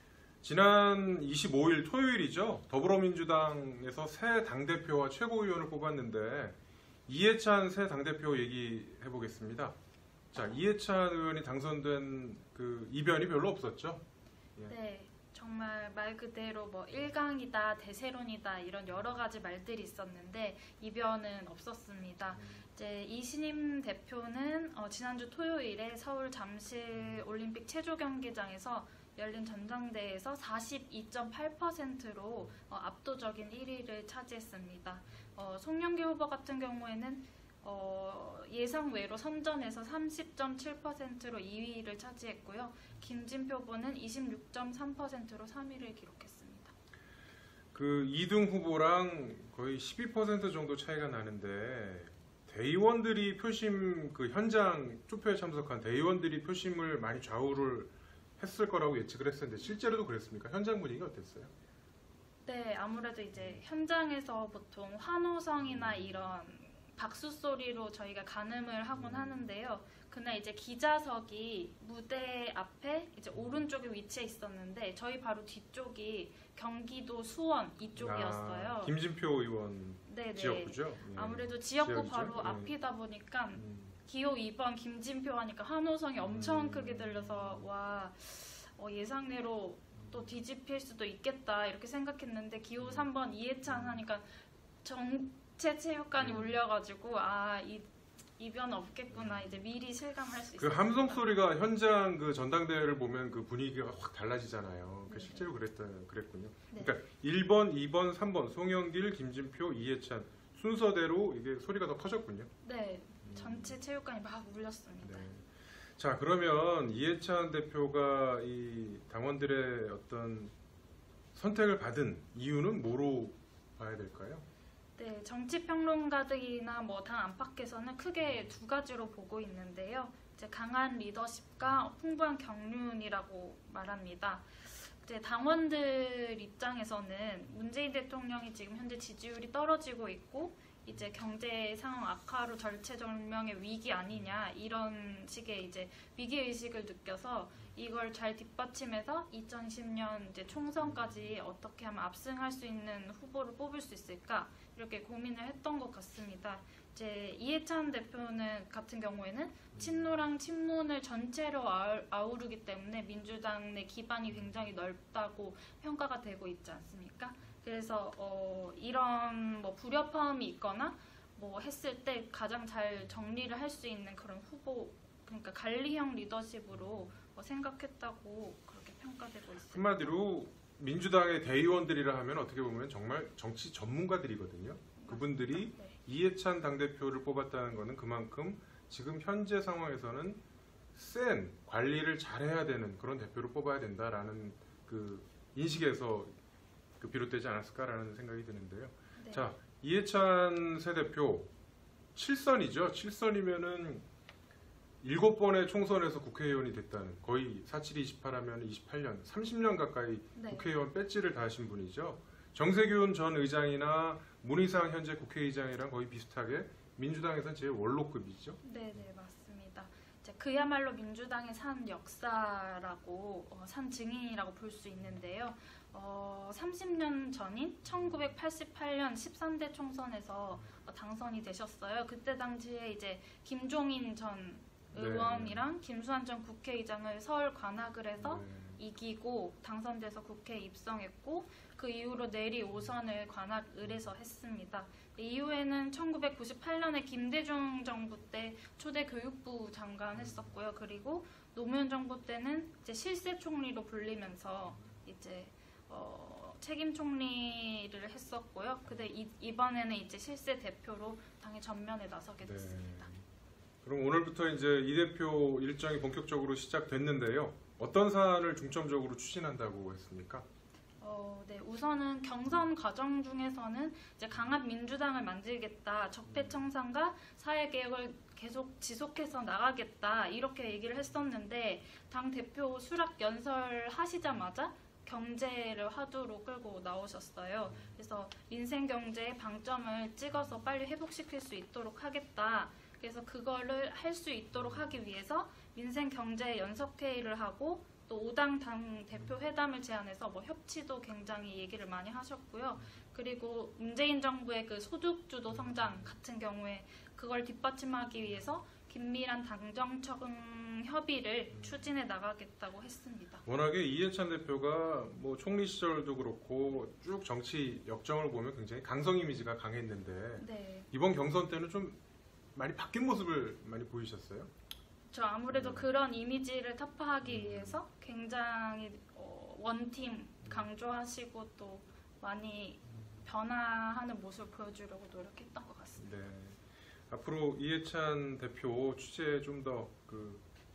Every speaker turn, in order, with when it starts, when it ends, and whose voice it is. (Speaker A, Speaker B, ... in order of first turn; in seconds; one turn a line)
Speaker A: 0.4-9.7
Speaker A: 10.3-14.0
Speaker B: 14.7-46.7
Speaker A: 22.4-22.6
Speaker A: 47.7-61.5
Speaker B: 62.5-78.9
Speaker A: 63.3-63.6
Speaker A: 65.6-66.3
Speaker A: 68.9-69.4
Speaker A: 78.0-82.7
Speaker B: 80.1-94.2
Speaker A: 83.5-84.0
Speaker A: 86.2-87.7
Speaker A: 92.8-93.0
Speaker A: 93.7-94.0
Speaker B: 94.8-101.3
Speaker A: 96.2-96.6
Speaker A: 99.1-99.6
Speaker A: 100.6-112.5
Speaker B: 105.1-105.5
Speaker B: 112.6-115.3
Speaker A: 113.2-113.8
Speaker A: 115.0-115.4
Speaker A: 116.0-120.5
Speaker A: 121.3-124.4
Speaker B: 125.0-180.1
Speaker A: 179.7-190.4
Speaker B: 185.0-186.0
Speaker A: 190.9-196.3
Speaker A: 197.0-201.5
Speaker B: 199.2-199.5
Speaker A: 202.2-204.0
Speaker A: 205.0-218.6
Speaker B: 210.3-210.7
Speaker B: 218.6-263.1
Speaker A: 234.9-235.6
Speaker A: 238.2-238.8
Speaker A: 262.4-263.2
Speaker A: 263.8-270.4
Speaker B: 271.0-313.4
Speaker A: 311.5-311.9
Speaker A: 313.4-322.0
Speaker B: 320.4-320.9
Speaker A: 322.5-324.5
Speaker B: 325.1-336.1
Speaker A: 325.5-325.8
Speaker A: 327.2-327.8
Speaker A: 336.0-340.4